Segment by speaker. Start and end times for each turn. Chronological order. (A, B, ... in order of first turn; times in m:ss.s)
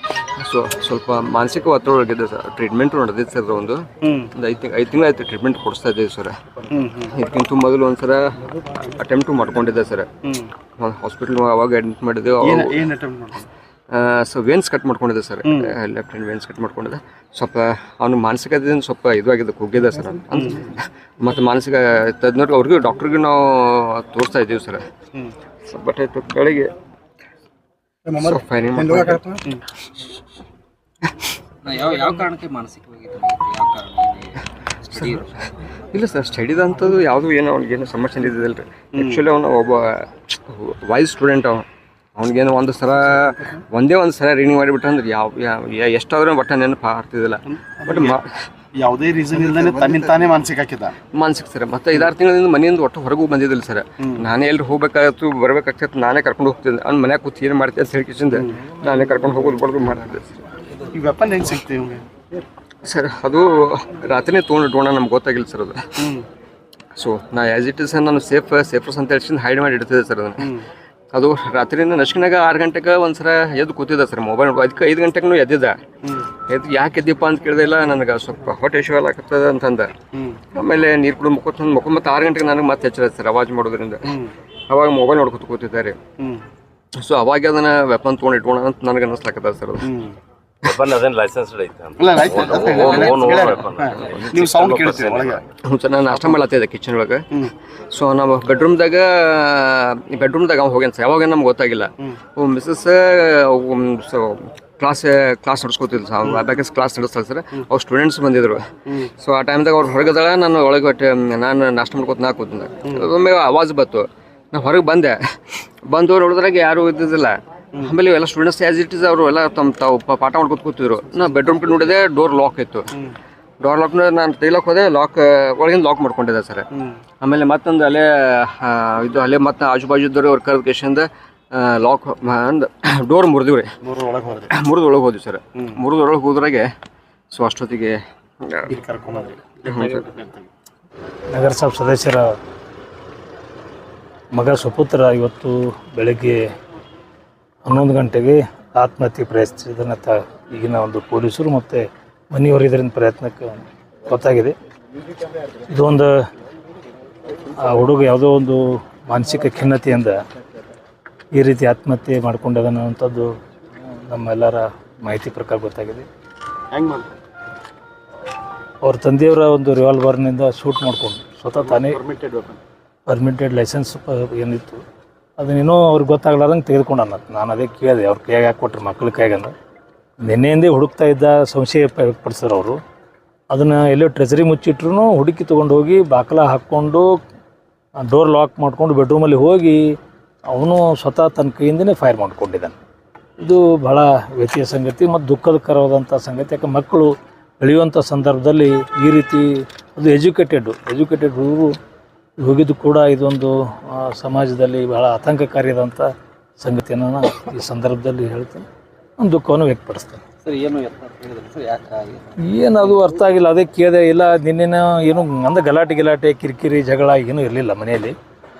0:00.4-0:06.4 A
0:04.0-0:04.3 B
0:06.7-0:07.1 B
0:07.1-0:10.1 A
0:10.2-0:10.5 B
0:10.8-0:12.8 A
0:12.4-0:13.5 B
0:13.9-0:24.8 A
0:15.4-0:15.7 B
0:20.3-0:20.6 B
0:25.6-0:26.7 A
0:28.1-0:29.6 B
0:28.2-0:29.3 A
0:31.6-0:35.4 C
0:34.9-0:35.2 A
0:35.9-0:41.6 A
0:38.9-0:39.2 B
0:42.2-0:48.5 A
0:47.5-0:48.2 B
0:48.7-0:50.9 B
0:49.4-0:50.3 A
0:51.1-1:00.4 A
0:58.3-0:58.6 B
1:00.9-1:02.0 B
1:02.8-1:06.0 A
1:06.0-1:06.2 B
1:07.0-1:10.6 A
1:10.4-1:10.6 B
1:11.1-1:15.8 A
1:16.5-1:19.9 A
1:20.1-1:20.4 B
1:20.5-1:26.0 A
1:24.0-1:24.3 B
1:26.2-1:26.4 B
1:27.0-1:29.9 A
1:29.8-1:30.2 B
1:30.6-1:35.4 D
1:32.0-1:35.4 B
1:32.7-1:33.5 A
1:35.6-1:37.2 A
1:37.9-2:02.9 A
2:03.6-2:06.7 A
2:06.7-2:07.0 B
2:07.2-2:13.7 A
2:13.8-2:14.5 B
2:14.5-2:16.7 A
2:17.3-2:18.7 A
2:18.7-2:20.5 B
2:19.6-2:20.0 A
2:21.3-2:22.2 E
2:24.3-2:26.4 E
2:27.6-2:34.5 E
2:35.7-2:36.1 E
2:37.5-2:40.2 E
2:41.4-2:43.3 E
2:44.1-2:46.1 E
2:46.7-2:47.1 B
2:48.8-2:52.0 E
2:51.6-2:52.6 B
2:53.1-2:54.8 E
2:55.4-2:59.5 E
3:00.2-3:02.8 E
3:03.5-3:07.1 E
3:08.0-3:09.9 E
3:10.5-3:12.7 E
3:13.4-3:21.7 E
3:22.4-3:28.6 E
3:29.2-3:30.2 E
3:30.4-3:33.0 C
3:32.4-3:38.1 E